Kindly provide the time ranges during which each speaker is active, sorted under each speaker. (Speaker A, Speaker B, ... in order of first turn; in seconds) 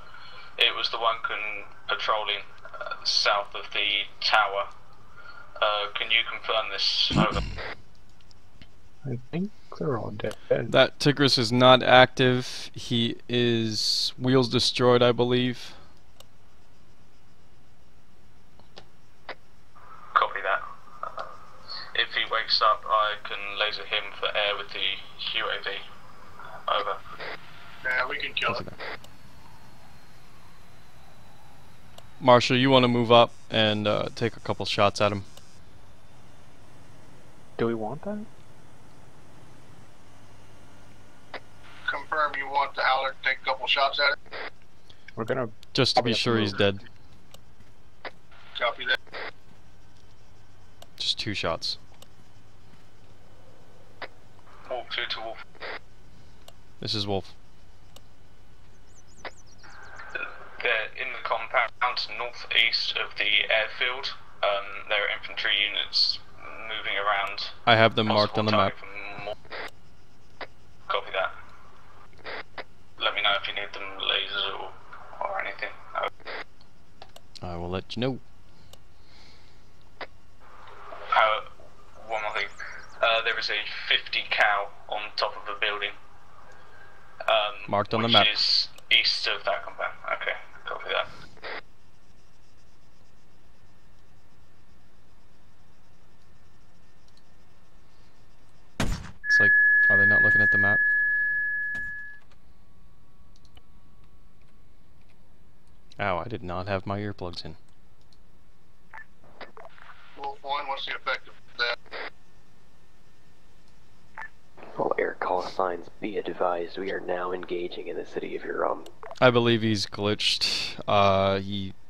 Speaker A: 0.6-4.7, 5.6-7.4, 20.1-20.6, 21.9-25.8, 26.7-27.0, 54.7-55.4, 60.1-67.6, 68.1-69.3, 70.9-71.3, 73.0-76.1, 81.1-86.0, 87.2-91.1
Speaker B: 9.1-10.7, 37.6-38.3, 45.2-46.7
Speaker C: 10.7-15.8, 28.5-28.8, 32.2-35.3, 45.7-46.8, 51.0-51.8, 56.8-57.3, 67.7-68.7, 77.4-78.2, 87.7-88.3, 99.3-100.8, 106.0-107.6, 119.2-121.7
Speaker D: 27.8-28.6, 41.9-44.2, 48.6-49.0, 110.2-111.8
Speaker E: 114.8-118.9